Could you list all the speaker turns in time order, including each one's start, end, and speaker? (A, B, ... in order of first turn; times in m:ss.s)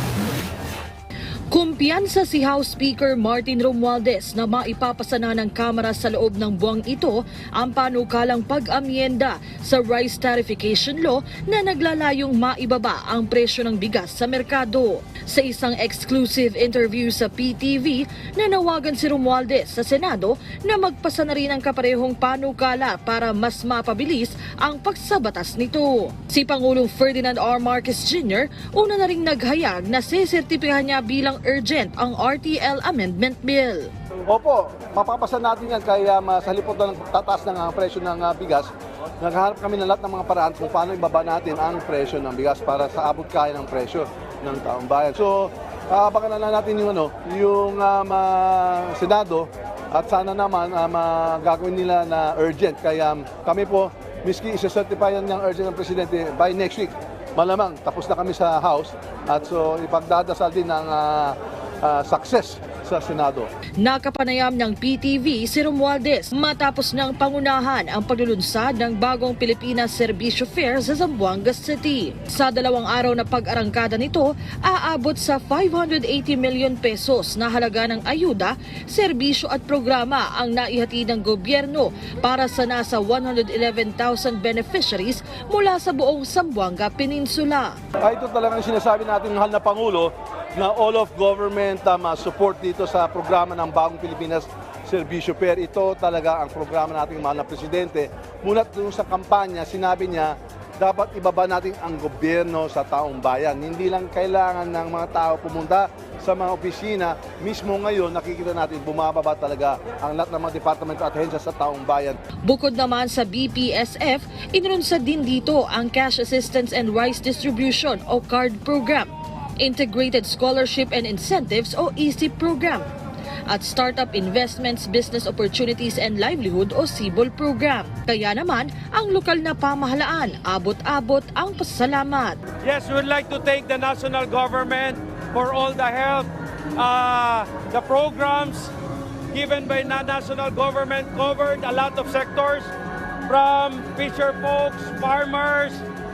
0:01.5-0:33.9 A
0:34.3-0:38.7 B
0:39.2-1:03.5 B
1:03.8-1:27.8 A
1:28.0-1:52.2 B
1:52.5-2:02.9 A
2:03.5-2:12.4 A
2:12.6-2:18.7 C
2:19.3-2:22.7 C
2:23.3-2:25.9 C